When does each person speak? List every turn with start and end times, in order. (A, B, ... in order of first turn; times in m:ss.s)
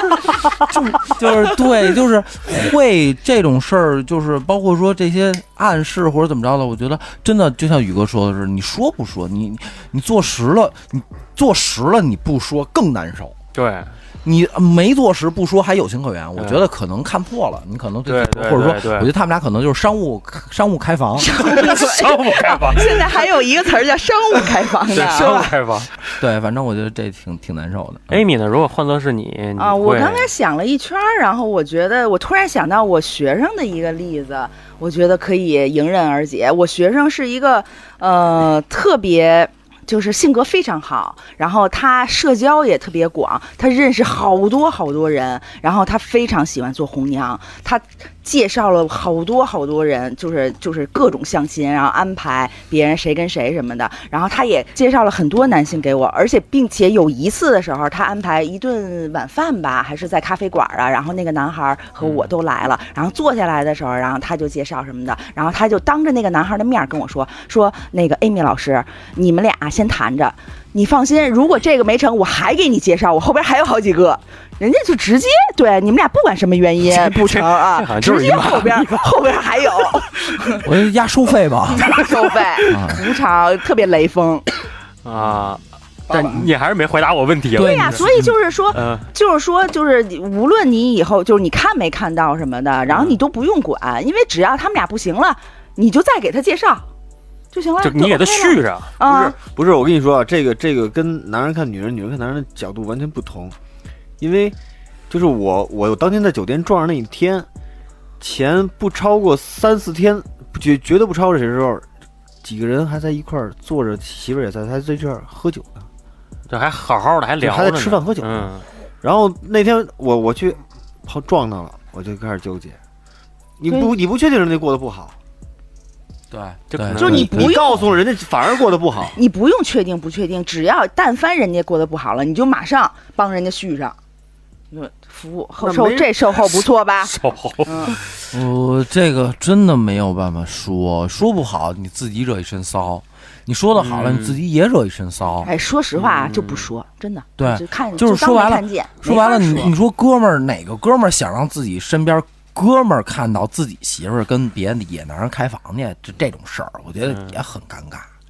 0:00.7-0:13.3 A
0:13.5-0:13.9 B
0:14.2-0:21.3 A
0:16.4-0:16.7 B
0:18.0-0:19.1 B
0:21.2-0:25.4 C
0:21.4-0:23.3 B
0:24.9-0:25.9 B
0:25.0-0:25.5 A
0:26.2-0:28.2 A
0:28.1-0:30.3 B
0:29.6-1:20.7 C
1:02.0-1:02.3 B
1:16.9-1:19.3 B
1:20.6-1:22.0 A
1:21.8-1:24.5 C
1:22.6-1:23.0 A
1:25.0-1:28.0 B
1:27.6-1:28.3 A
1:27.6-1:36.9 C
1:28.7-1:29.1 B
1:32.9-1:33.2 B
1:37.5-1:39.4 C
1:37.8-1:38.9 B
1:39.0-1:43.5 D
1:44.2-1:44.6 D
1:45.1-1:47.4 D
1:48.2-1:51.9 D
1:52.4-1:55.9 D
1:56.5-1:58.6 B
1:57.4-1:58.5 D
1:59.0-2:02.8 D
2:03.6-2:05.1 D
2:06.3-2:07.5 A
2:06.7-2:07.3 B
2:07.0-2:09.2 D
2:07.1-2:07.8 C
2:09.2-2:14.0 C
2:14.7-2:18.0 C
2:15.6-2:16.1 D
2:17.0-2:18.0 B
2:18.3-2:25.5 A
2:23.8-2:24.4 B
2:25.4-2:29.7 C
2:25.9-2:26.7 B
2:27.4-2:38.0 A
2:37.0-2:37.4 B